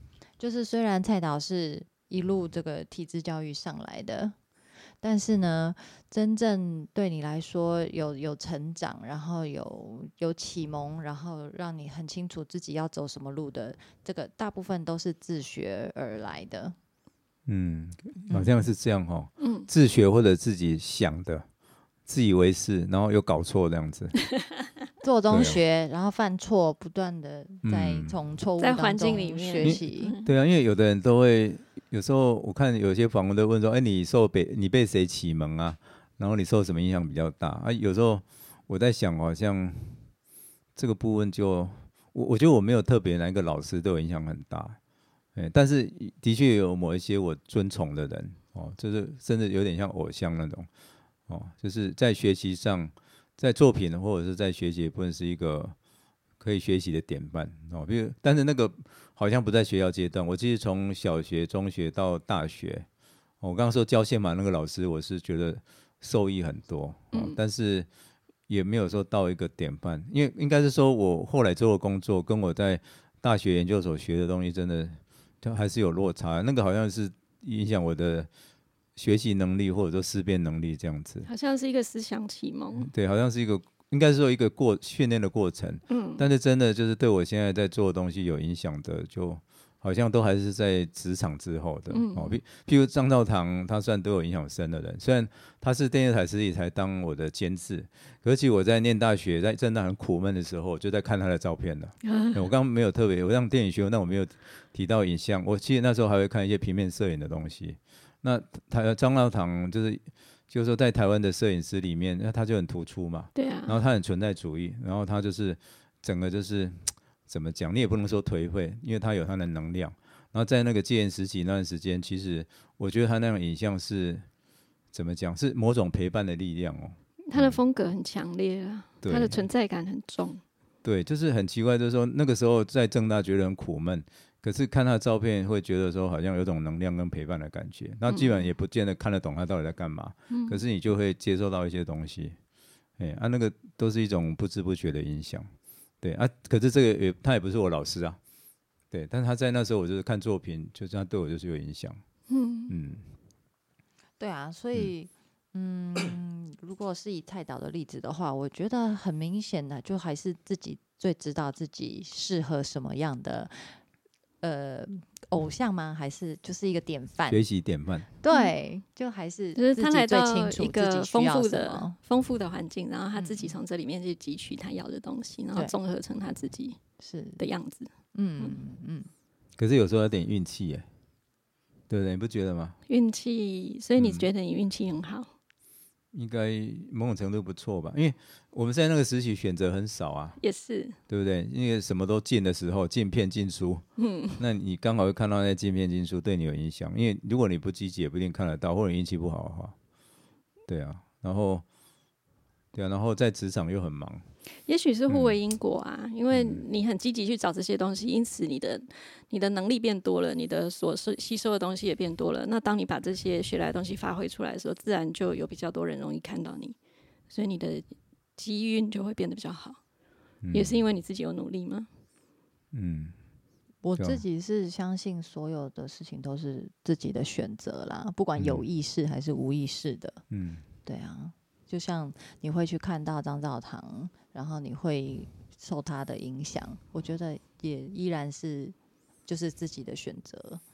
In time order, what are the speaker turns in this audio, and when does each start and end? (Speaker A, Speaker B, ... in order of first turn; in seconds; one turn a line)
Speaker A: 0.4-4.3
Speaker A: 5.0-16.8
Speaker B: 17.4-21.4
Speaker C: 19.4-19.7
Speaker B: 22.1-24.1
Speaker A: 25.0-30.1
Speaker B: 25.3-25.6
Speaker B: 27.6-28.1
Speaker C: 28.6-30.3
Speaker B: 29.6-40.0
Speaker B: 40.8-44.8
Speaker B: 45.3-50.7
Speaker B: 51.3-55.7
Speaker B: 56.4-62.9
Speaker B: 63.4-67.9
Speaker B: 68.5-78.3
Speaker B: 79.0-81.3
Speaker C: 81.2-82.9
Speaker B: 82.8-124.2
Speaker C: 85.9-86.2
Speaker C: 91.9-92.4
Speaker C: 102.0-102.4
Speaker C: 113.3-113.8
Speaker B: 124.9-127.6
Speaker C: 127.3-130.4
Speaker B: 129.0-129.4
Speaker B: 130.8-142.3
Speaker C: 138.1-138.4
Speaker C: 140.3-140.6
Speaker B: 143.0-145.5
Speaker B: 146.0-148.2
Speaker B: 148.9-152.0
Speaker C: 152.3-152.7
Speaker B: 152.7-153.0
Speaker A: 154.2-163.6
Speaker A: 164.4-167.4
Speaker B: 167.3-168.1
Speaker A: 168.2-171.9
Speaker C: 169.6-176.8
Speaker A: 173.2-173.6
Speaker A: 177.0-177.4
Speaker C: 177.4-178.5
Speaker A: 178.1-179.1
Speaker B: 179.6-180.8
Speaker B: 181.9-182.8
Speaker C: 182.9-185.3
Speaker B: 184.0-184.3
Speaker B: 186.1-190.4
Speaker C: 190.4-191.0
Speaker B: 191.1-193.8
Speaker C: 194.0-194.4
Speaker B: 194.4-199.7
Speaker B: 200.7-201.6
Speaker B: 202.7-204.2
Speaker C: 204.7-216.8
Speaker B: 205.1-205.3
Speaker B: 206.3-206.6
Speaker C: 217.3-219.8
Speaker B: 220.4-220.8
Speaker C: 220.5-221.9
Speaker B: 222.7-223.1
Speaker A: 223.8-230.2
Speaker B: 228.4-228.6
Speaker B: 230.3-230.6
Speaker A: 230.8-238.7
Speaker A: 239.2-240.6